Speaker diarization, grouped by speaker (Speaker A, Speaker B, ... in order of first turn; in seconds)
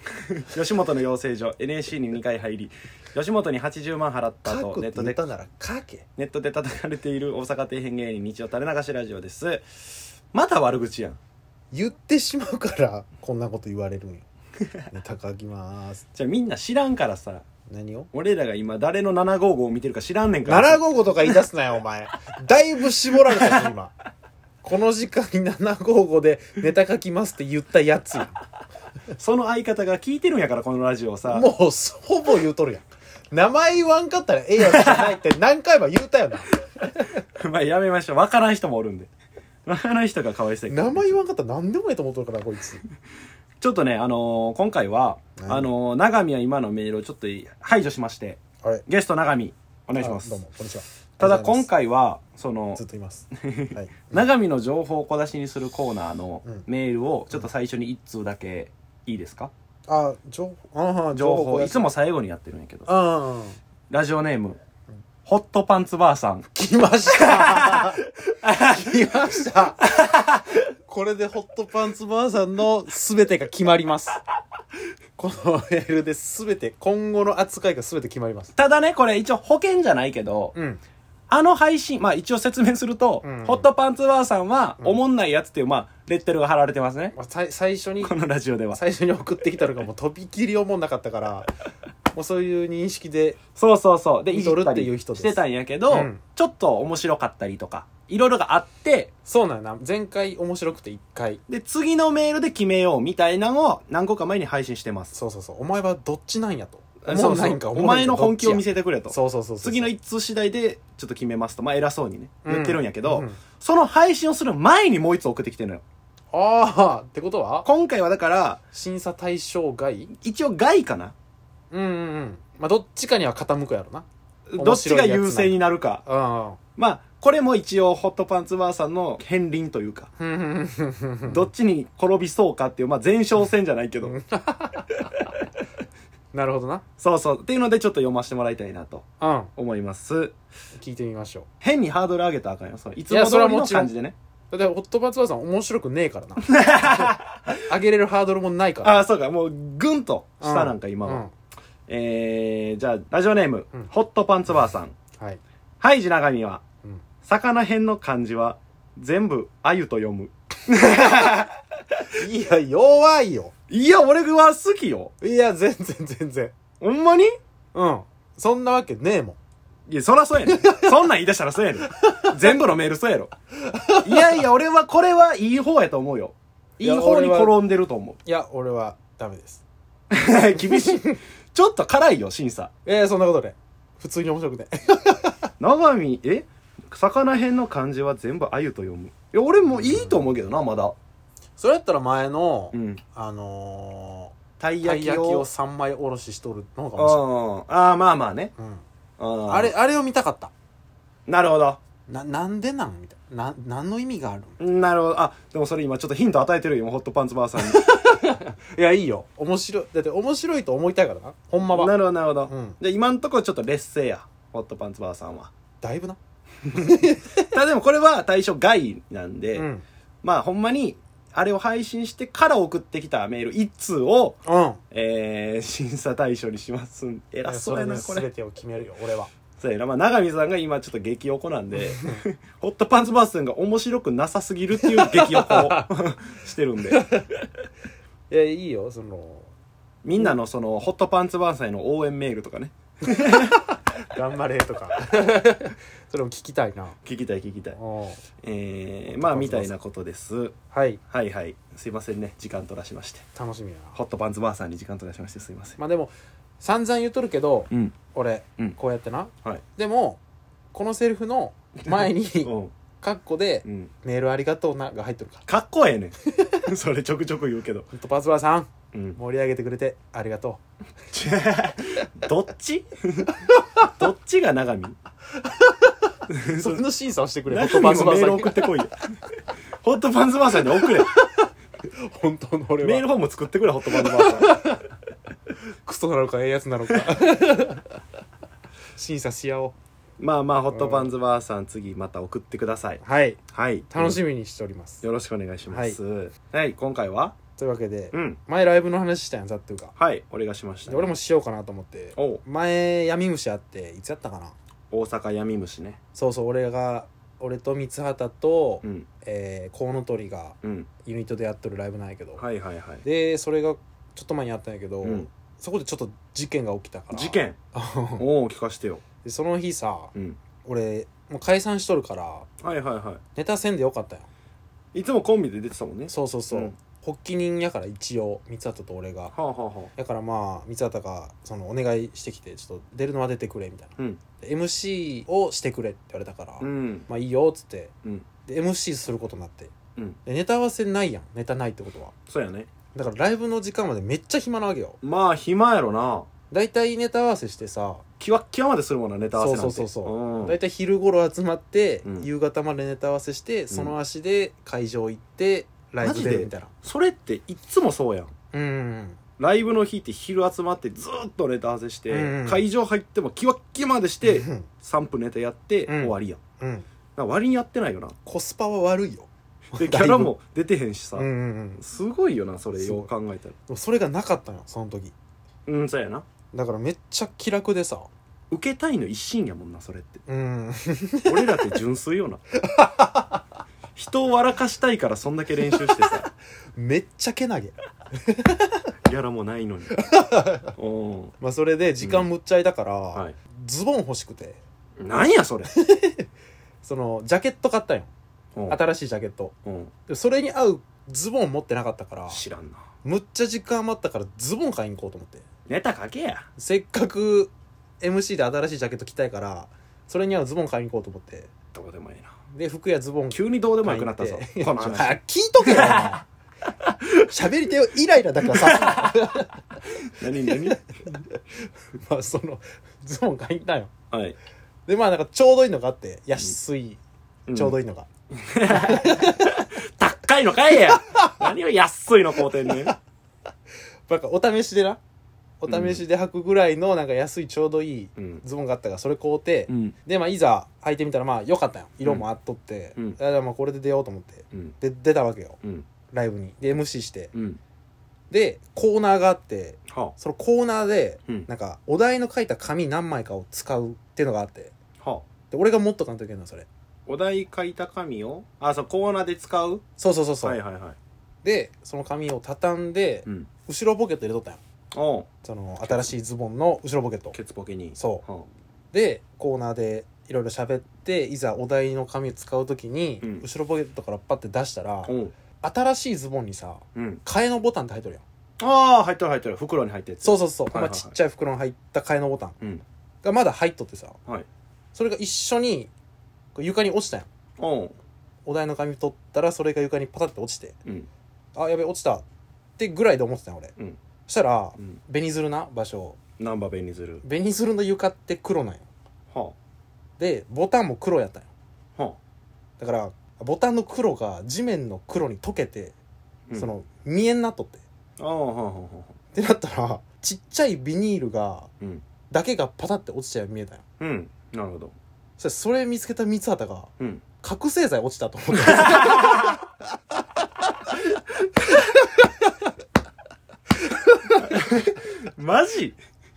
Speaker A: 0.5-5.2, 6.2-9.6, 10.3-11.2, 16.1-17.4, 18.1-21.4, 29.2-31.5, 34.6-35.2, 37.4-39.1, 39.7-41.2, 43.6-50.4, 51.2-59.5, 61.1-62.9, 63.9-64.6, 65.3-66.5, 67.2-68.8, 69.8-70.4, 78.5-80.5, 81.3-87.1, 88.0-88.8, 93.6-99.1, 101.5-105.1, 107.0-115.8, 117.6-118.6, 120.2-121.2, 124.5-126.0, 126.8-130.1, 131.2-134.2, 137.0-140.3, 141.6-144.2, 146.4-147.5, 148.8-151.2, 151.9-154.9, 155.8-156.6, 157.2-161.5, 163.7-165.1, 166.8-167.4, 169.9-173.3, 174.0-178.2, 180.1-182.7, 185.6-190.9, 192.7-193.0, 194.6-195.5, 196.9-198.5, 199.2-199.7, 201.3-201.8, 204.6-207.8, 211.7-215.5, 217.4-219.7, 220.2-224.4, 224.9-228.3, 229.6-237.0, 240.0-243.6, 247.1-247.8, 248.4-250.6, 251.1-253.3, 253.9-255.8, 262.0-262.7, 263.6-263.9, 265.5-266.1, 266.7-267.9, 268.9-269.2, 271.1-273.3, 273.9-275.0, 276.3-276.8, 277.5-279.0, 279.8-281.1, 282.8-284.6, 290.2-294.2, 295.0-297.4, 298.1-298.4, 300.0-301.1, 302.2-302.4, 304.9-306.0, 308.8-309.1, 310.6-310.9, 312.4-313.0, 315.0-315.3, 317.1-317.6, 318.2-319.0, 322.6-323.2, 324.9-326.8, 329.3-329.9, 336.6-337.1, 342.3-342.7, 345.0-346.3, 348.2-350.6, 356.0-358.3, 359.4-366.4, 367.2-368.2, 369.8-371.3, 371.8-373.6, 375.7-376.3, 378.5-380.2, 381.3-382.4, 384.0-386.3, 389.1-390.0, 390.8-391.3, 392.0-392.3, 395.0-395.7, 399.7-399.9, 402.3-402.8, 405.7-406.4, 411.7-412.3, 413.3-416.2, 418.6-419.1, 420.1-420.8, 424.1-424.4, 427.5-427.8, 428.4-432.9, 435.7-436.0, 438.2-438.4, 439.7-440.0, 447.3-447.6, 449.9-450.1, 455.0-455.3, 457.1-459.8, 460.4-461.0, 464.9-465.3, 467.3-468.5, 475.1-475.3, 476.9-477.2, 478.6-481.1, 487.6-488.0, 496.4-497.2, 508.2-509.1, 514.0-514.9, 518.6-519.6, 524.5-526.0
Speaker B: 4.4-6.1, 11.7-14.2, 14.9-16.1, 17.7-18.1, 20.4-23.9, 24.6-28.4, 31.3-36.5, 40.7-42.8, 45.4-45.7, 50.0-51.7, 52.8-54.2, 59.9-61.9, 62.9-63.6, 66.5-69.8, 70.9-74.2, 75.2-78.5, 80.5-80.8, 83.2-83.7, 87.1-88.1, 88.7-91.5, 92.1-93.4, 94.3-96.2, 99.3-101.4, 105.1-109.9, 112.5-113.4, 116.3-117.7, 118.7-120.1, 121.7-124.1, 124.6-126.6, 130.2-131.5, 134.0-135.1, 136.3-136.8, 139.2-139.5, 140.8-141.5, 143.1-143.9, 144.5-149.0, 150.4-151.3, 155.2-155.4, 162.2-163.5, 165.2-166.6, 167.7-169.4, 170.5-170.9, 172.0-172.2, 173.6-174.4, 176.8-177.6, 178.2-179.6, 180.7-181.2, 182.9-185.5, 189.7-190.2, 191.6-197.2, 198.6-198.8, 199.5-200.5, 202.1-204.6, 207.6-211.9, 212.5-212.8, 215.8-216.2, 216.7-217.5, 219.6-219.8, 224.5-224.8, 227.4-229.3, 234.8-235.9, 236.9-237.3, 238.3-239.5, 244.1-247.0, 247.7-248.2, 249.1-249.7, 250.7-251.0, 253.3-254.0, 255.8-260.2, 260.7-265.5, 267.9-270.6, 275.4-275.9, 276.5-278.7, 280.8-281.5, 282.1-283.1, 283.9-284.8, 285.8-288.0, 289.0-289.8, 290.7-291.1, 293.0-293.4, 293.9-295.0, 295.7-296.0, 297.6-299.9, 300.9-304.6, 306.1-312.4, 313.0-318.2, 319.2-320.1, 320.6-322.5, 323.4-324.3, 326.1-329.3, 330.0-337.9, 338.5-339.7, 340.2-342.1, 342.9-345.0, 346.5-348.0, 349.3-356.7, 358.5-359.2, 362.1-362.6, 364.2-364.7, 365.9-366.9, 368.3-370.3, 371.2-371.8, 372.8-373.1, 373.7-375.1, 376.5-378.1, 380.3-381.7, 382.6-383.4, 385.7-386.1, 386.8-388.8, 390.0-390.8, 391.4-394.6, 395.7-396.3, 396.8-398.1, 398.7-399.6, 400.1-402.4, 403.0-405.4, 406.6-411.5, 412.5-416.2, 417.3-419.6, 420.5-421.4, 421.9-423.9, 424.9-427.0, 427.5-428.1, 428.7-429.6, 430.9-431.4, 434.1-435.0, 435.6-445.6, 446.1-447.3, 448.3-454.7, 455.5-456.7, 460.0-460.6, 461.4-464.6, 465.4-467.4, 467.9-468.2, 468.9-478.2, 480.2-482.6, 483.2-484.2, 484.9-485.9, 486.6-487.3, 488.4-490.8, 491.6-492.2, 492.8-493.7, 494.3-496.2, 497.2-498.9, 500.2-501.5, 502.8-505.9, 506.6-507.8, 509.3-511.7, 512.3-513.8, 515.4-516.9, 517.4-519.7, 521.6-522.5, 523.8-524.9